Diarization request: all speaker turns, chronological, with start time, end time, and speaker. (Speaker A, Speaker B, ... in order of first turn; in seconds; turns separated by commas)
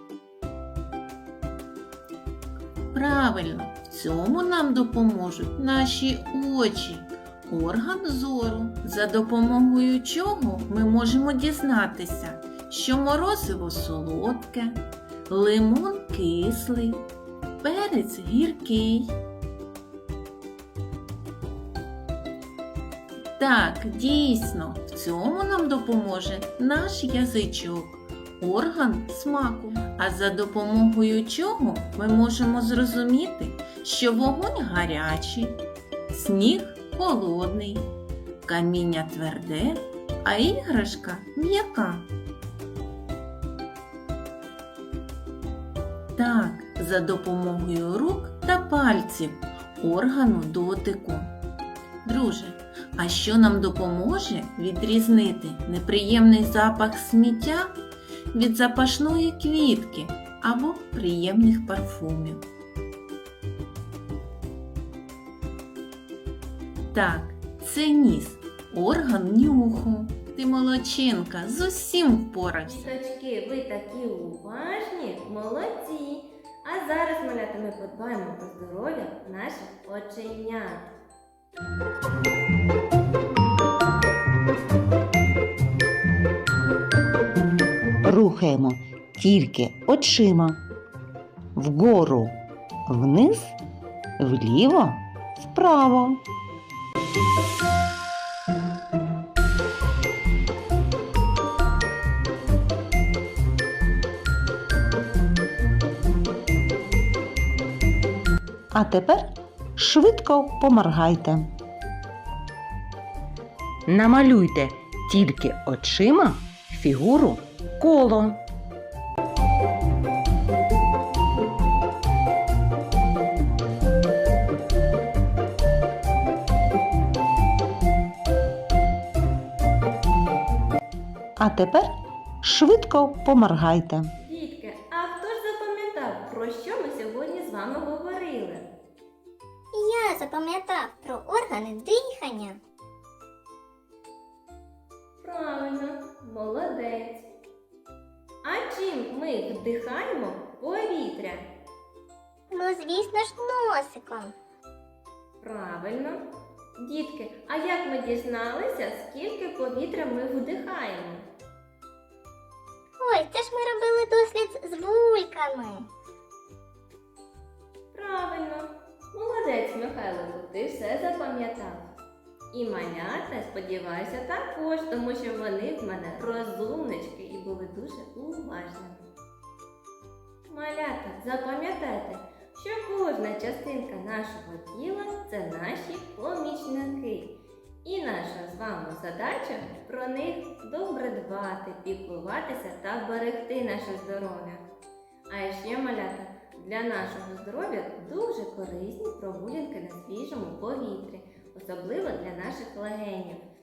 Speaker A: 2.9-17.0, Speaker A: 17.6-19.1, Speaker A: 23.4-37.9, Speaker A: 38.4-42.1, Speaker A: 46.1-51.4, Speaker A: 52.0-57.8, Speaker A: 58.3-62.4, Speaker A: 66.9-72.9, Speaker B: 72.7-80.9, Speaker C: 88.0-90.6, Speaker C: 91.5-92.3, Speaker C: 92.9-93.5, Speaker C: 94.2-96.2, Speaker C: 108.7-109.2, Speaker C: 109.8-111.5, Speaker C: 113.9-118.4, Speaker C: 131.4-131.9, Speaker C: 132.4-134.1, Speaker B: 134.2-138.6, Speaker D: 139.7-142.6, Speaker B: 145.2-147.2, Speaker B: 148.4-151.4, Speaker D: 152.5-154.3, Speaker B: 155.4-156.2, Speaker B: 156.8-161.2, Speaker D: 163.0-165.9, Speaker B: 167.9-171.9, Speaker B: 172.5-179.1, Speaker B: 180.5-194.6, Speaker B: 195.3-203.4